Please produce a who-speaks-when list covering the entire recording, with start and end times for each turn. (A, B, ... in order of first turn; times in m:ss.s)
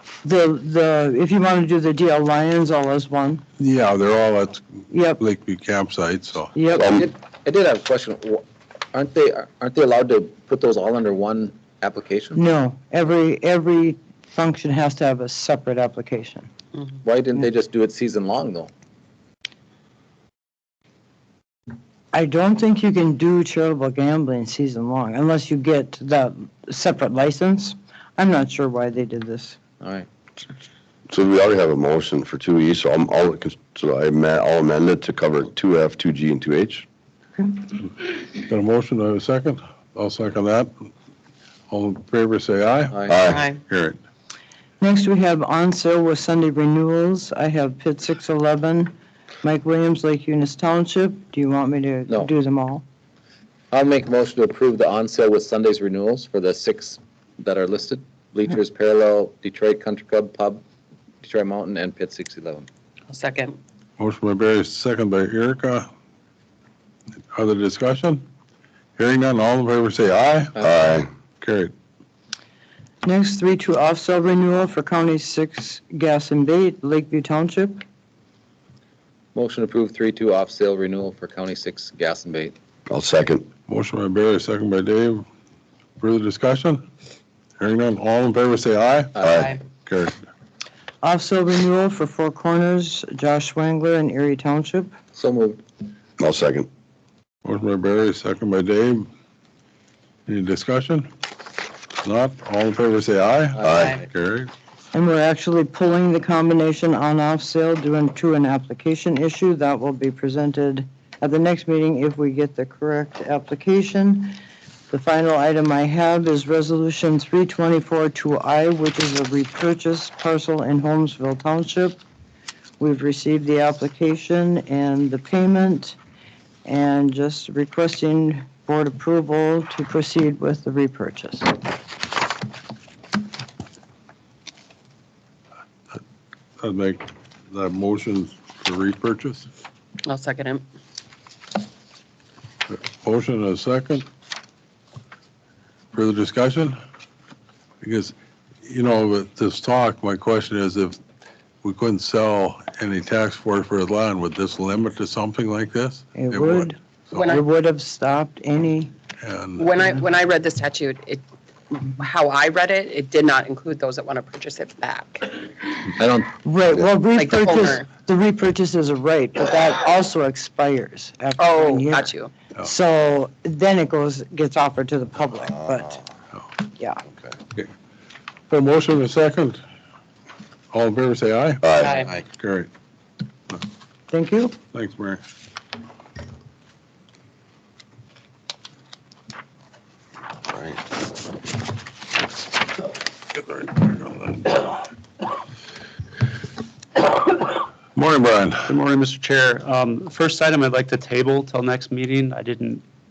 0:00.2-0:03.4 A
0:03.6-0:06.5 B
0:04.9-0:05.2 A
0:06.5-0:06.9 A
0:06.7-0:12.4 C
0:12.4-0:16.5 A
0:17.0-0:18.7 C
0:22.1-0:29.6 A
0:29.8-0:30.1 C
0:31.1-0:36.8 D
0:38.3-0:40.9 B
0:41.7-0:44.0 B
0:42.9-0:43.2 C
0:43.1-0:43.5 D
0:43.2-0:43.6 E
0:44.8-0:48.9 A
0:49.4-0:52.8 A
0:53.7-1:00.6 C
1:01.2-1:02.7 C
1:03.1-1:03.6 E
1:04.0-1:05.9 B
1:07.3-1:08.2 B
1:09.0-1:10.7 B
1:10.6-1:11.1 D
1:11.4-1:11.7 B
1:13.0-1:17.8 A
1:19.3-1:22.5 C
1:22.9-1:23.5 D
1:23.7-1:25.2 B
1:26.0-1:26.8 B
1:27.6-1:30.2 B
1:29.2-1:29.5 D
1:31.0-1:34.9 A
1:35.2-1:35.6 C
1:36.2-1:36.7 D
1:37.4-1:39.1 B
1:40.3-1:41.1 B
1:42.0-1:44.5 B
1:43.6-1:44.0 D
1:44.9-2:02.0 A
2:02.8-2:06.0 A
2:06.6-2:11.6 A
2:16.6-2:19.5 B
2:20.0-2:20.6 E
2:22.7-2:24.0 B
2:25.9-2:26.8 B
2:27.8-2:31.0 B
2:31.6-2:37.3 B
2:36.1-2:38.9 A
2:37.1-2:37.4 E
2:39.2-2:39.7 B
2:39.6-2:45.4 E
2:46.0-2:46.3 C
2:46.3-2:56.0 A
2:47.1-2:47.9 E
2:51.4-2:52.3 E
2:56.8-2:57.0 A
2:58.5-2:59.6 B
3:00.7-3:01.6 B
3:01.6-3:02.0 D
3:01.7-3:02.1 E
3:02.2-3:02.7 B
3:04.1-3:04.5 A
3:04.7-3:05.2 B
3:13.5-3:14.6 B
3:17.9-3:18.7 B
3:18.7-3:22.8 F